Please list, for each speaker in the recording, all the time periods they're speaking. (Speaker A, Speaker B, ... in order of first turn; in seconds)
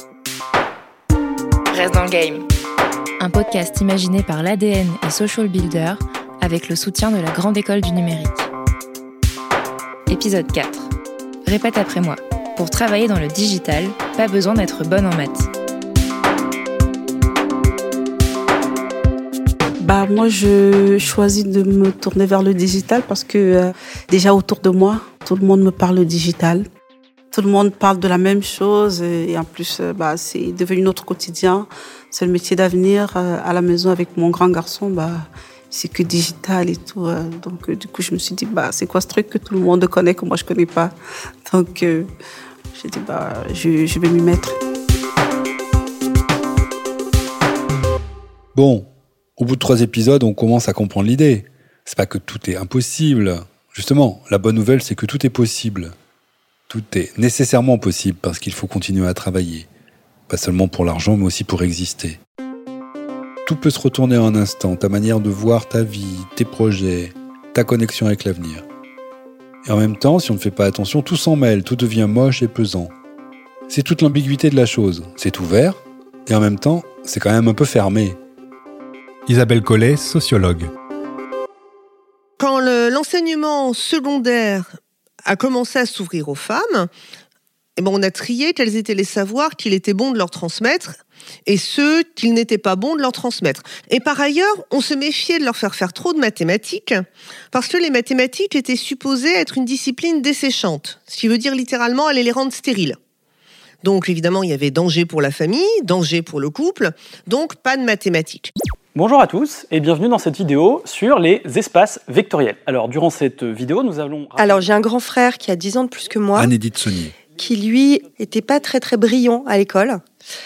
Speaker A: 1.7-2.5, 3.2-8.5, 10.1-10.9, 11.4-15.5
Speaker B: 19.8-26.7, 27.3-42.1, 42.7-44.6
Speaker C: 48.5-55.9, 56.7-59.7, 60.3-62.2, 63.5-68.7, 69.6-72.9, 73.7-78.2, 79.3-80.7, 116.3-117.2
Speaker D: 82.4-84.7, 85.3-86.9, 87.8-103.0, 103.8-108.5
Speaker E: 108.9-114.7
Speaker F: 114.4-116.5, 117.3-120.0